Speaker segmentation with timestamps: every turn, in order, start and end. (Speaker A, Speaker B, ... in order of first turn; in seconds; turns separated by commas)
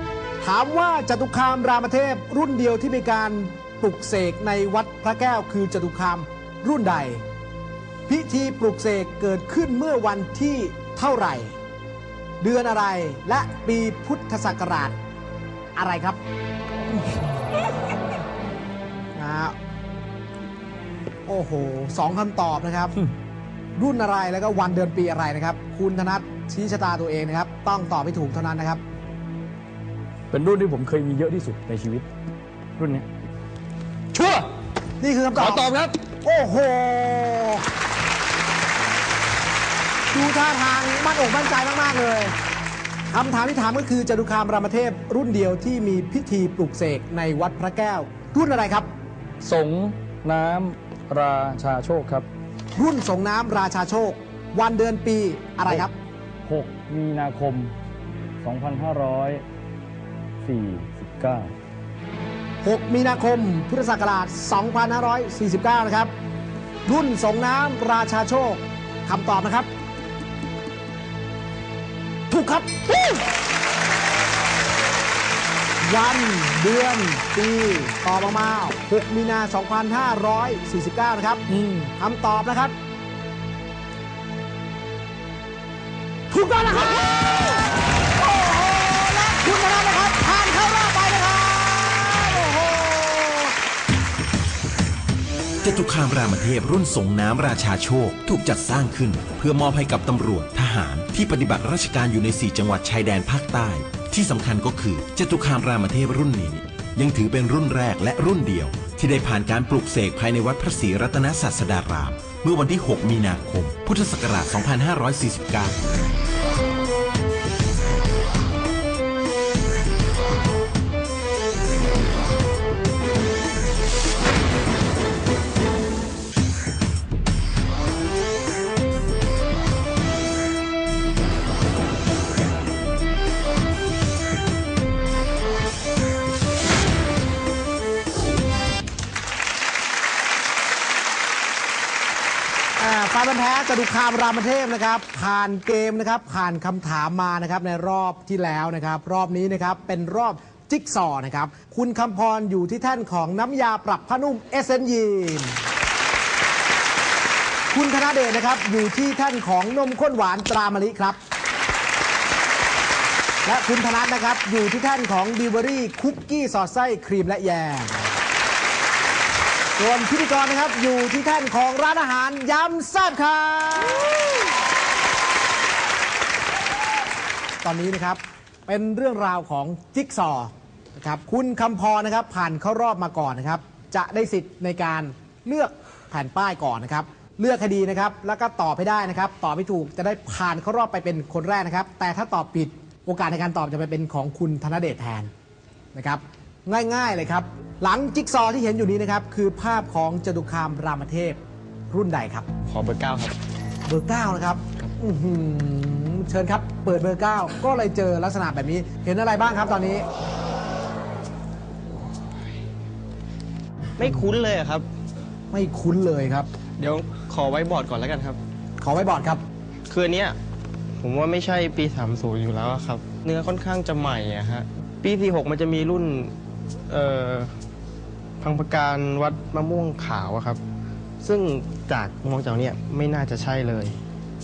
Speaker A: 0.4-7.2, Speaker A: 8.1-11.5, Speaker A: 12.4-15.0, Speaker A: 15.8-16.2, Speaker A: 19.1-19.6, Speaker A: 21.3-23.0, Speaker A: 23.8-28.8, Speaker B: 30.3-32.1, Speaker B: 32.8-33.1, Speaker B: 34.1-34.5, Speaker A: 35.0-37.6, Speaker B: 35.4-36.0, Speaker A: 40.1-42.3, Speaker A: 43.1-48.9, Speaker B: 49.4-52.3, Speaker A: 52.8-55.9, Speaker B: 56.4-57.7, Speaker B: 58.4-59.4, Speaker B: 60.4-61.5, Speaker A: 62.6-66.1, Speaker A: 66.9-69.7, Speaker A: 72.3-73.2, Speaker A: 75.8-82.7, Speaker B: 81.5-81.9, Speaker A: 86.3-93.5, Speaker C: 95.6-115.8, Speaker A: 142.8-155.6, Speaker A: 157.7-161.2, Speaker A: 163.4-168.1, Speaker A: 169.8-174.4, Speaker A: 177.6-195.3, Speaker A: 195.9-202.5, Speaker D: 202.7-203.3, Speaker A: 203.9-210.0, Speaker D: 214.0-214.8, Speaker A: 215.5-216.5, Speaker D: 216.8-218.4, Speaker A: 218.8-219.4, Speaker D: 219.9-220.3, Speaker D: 221.0-226.3, Speaker D: 226.9-227.5, Speaker D: 228.4-230.6, Speaker D: 231.2-234.0